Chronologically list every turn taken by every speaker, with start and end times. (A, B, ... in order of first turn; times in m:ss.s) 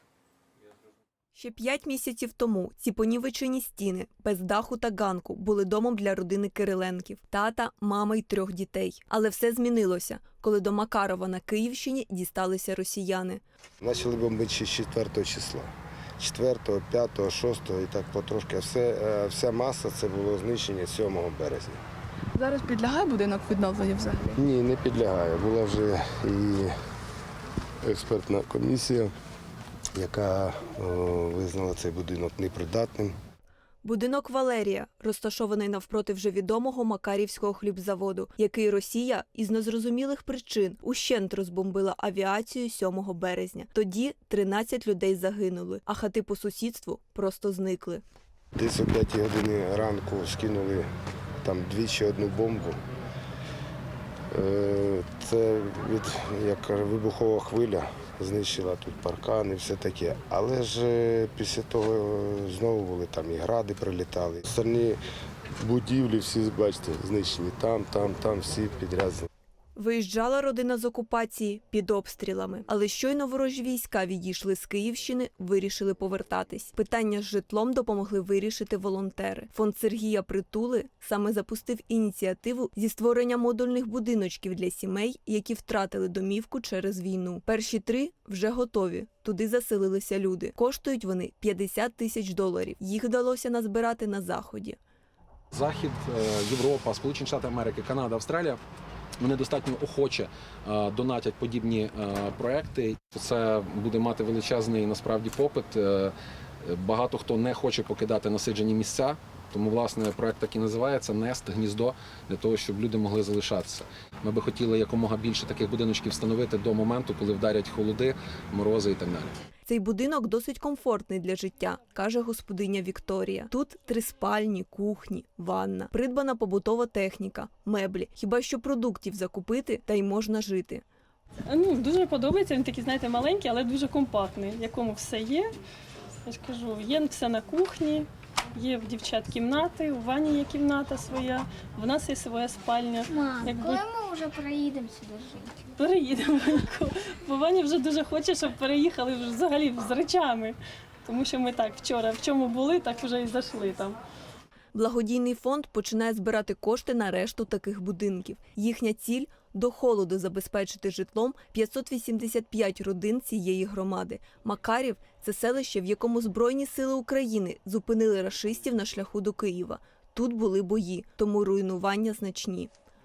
0:01.4-0:13.4 A
0:13.8-0:21.8 B
0:22.4-0:24.4 C
0:24.4-0:26.7 B
0:27.8-0:29.1 B
0:29.9-0:33.2 B
0:33.8-0:48.0 A
0:48.6-0:50.9 B
0:51.4-0:52.8 B
0:54.3-1:05.0 B
1:05.6-1:09.3 B
1:09.8-1:34.8 A
1:35.6-1:38.6 D
1:39.3-1:46.2 D
1:46.7-1:59.3 D
1:59.7-2:10.8 A
2:11.5-2:15.5 E
2:16.3-2:23.9 E
2:23.1-2:25.6 F
2:25.8-2:34.0 E
2:34.7-2:52.7 A